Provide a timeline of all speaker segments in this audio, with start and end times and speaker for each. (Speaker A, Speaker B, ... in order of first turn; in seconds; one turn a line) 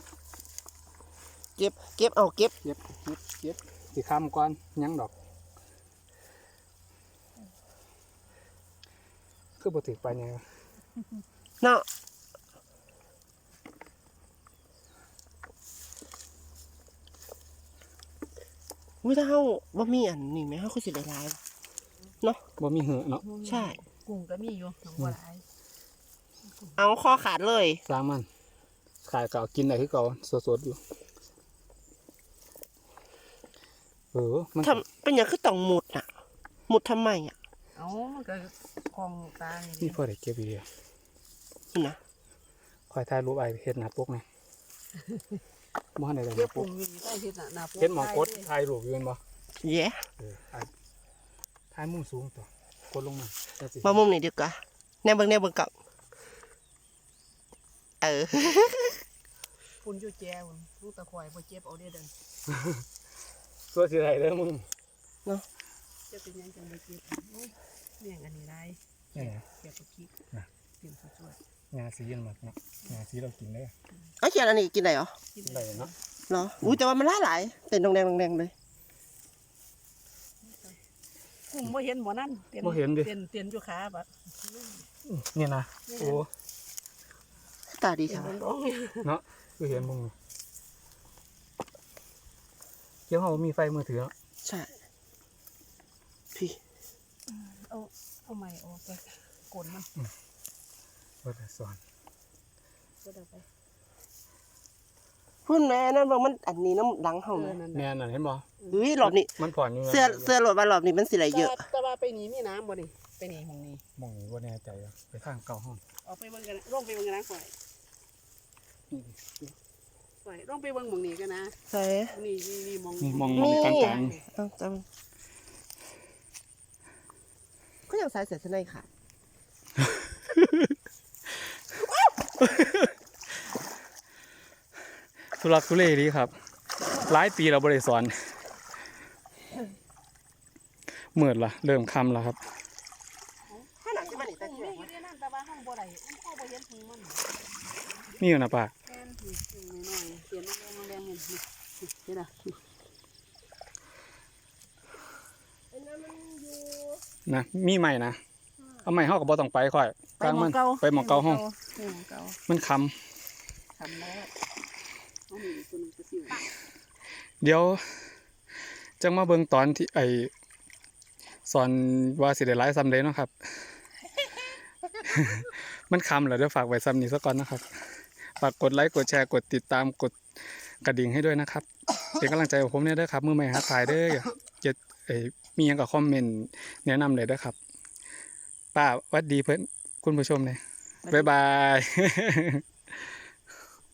Speaker A: 1.6-2.5
Speaker B: 2.6-5.1
Speaker B: 9.6-10.4
Speaker A: 19.0-21.4
Speaker B: 22.6-23.2
Speaker C: 23.2-25.4
Speaker A: 23.4-23.8
Speaker A: 26.8-27.8
Speaker B: 27.9-28.3
Speaker B: 29.0-30.8
Speaker B: 34.1-34.8
Speaker A: 34.6-36.0
Speaker A: 36.7-37.3
Speaker C: 37.8-40.0
Speaker B: 39.8-40.7
Speaker A: 41.7-42.0
Speaker B: 42.9-44.2
Speaker B: 46.0-46.7
Speaker C: 46.3-48.5
Speaker B: 47.8-49.2
Speaker A: 49.6-50.0
Speaker B: 50.2-50.7
Speaker B: 51.7-54.0
Speaker A: 53.8-55.7
Speaker A: 58.0-59.0
Speaker C: 59.8-62.1
Speaker B: 62.5-62.8
Speaker B: 63.7-64.7
Speaker C: 66.1-70.1
Speaker B: 69.1-69.4
Speaker C: 70.8-71.4
Speaker B: 71.7-73.7
Speaker A: 74.2-75.1
Speaker C: 75.3-75.9
Speaker B: 75.4-75.9
Speaker A: 76.3-78.5
Speaker C: 80.5-80.7
Speaker C: 81.5-84.8
Speaker B: 82.6-83.1
Speaker B: 85.0-86.3
Speaker C: 85.9-86.2
Speaker A: 87.7-88.4
Speaker C: 88.1-89.1
Speaker B: 89.0-90.1
Speaker B: 93.1-94.1
Speaker A: 94.4-94.7
Speaker C: 97.3-99.9
Speaker B: 101.2-101.8
Speaker C: 103.0-103.5
Speaker A: 105.5-107.6
Speaker C: 107.3-107.9
Speaker B: 107.7-108.5
Speaker A: 108.7-111.6
Speaker B: 109.0-110.3
Speaker C: 111.3-113.8
Speaker B: 114.0-115.8
Speaker C: 116.0-117.5
Speaker B: 118.9-119.5
Speaker C: 120.2-121.5
Speaker A: 121.7-122.1
Speaker C: 122.1-124.2
Speaker B: 123.0-124.2
Speaker A: 123.3-124.8
Speaker A: 127.9-128.8
Speaker B: 130.3-130.7
Speaker B: 132.4-132.9
Speaker B: 135.3-136.3
Speaker B: 136.9-138.1
Speaker B: 141.1-142.4
Speaker C: 143.5-147.3
Speaker A: 143.8-144.9
Speaker B: 148.2-148.7
Speaker C: 148.9-152.6
Speaker A: 155.7-157.0
Speaker B: 157.2-158.2
Speaker B: 158.8-161.4
Speaker C: 160.2-162.4
Speaker B: 162.5-163.0
Speaker A: 163.8-164.3
Speaker C: 165.3-166.4
Speaker B: 167.4-167.8
Speaker B: 169.0-170.3
Speaker B: 171.4-173.7
Speaker B: 175.0-177.6
Speaker B: 178.4-180.2
Speaker B: 180.8-187.6
Speaker B: 188.7-193.1
Speaker C: 191.0-191.3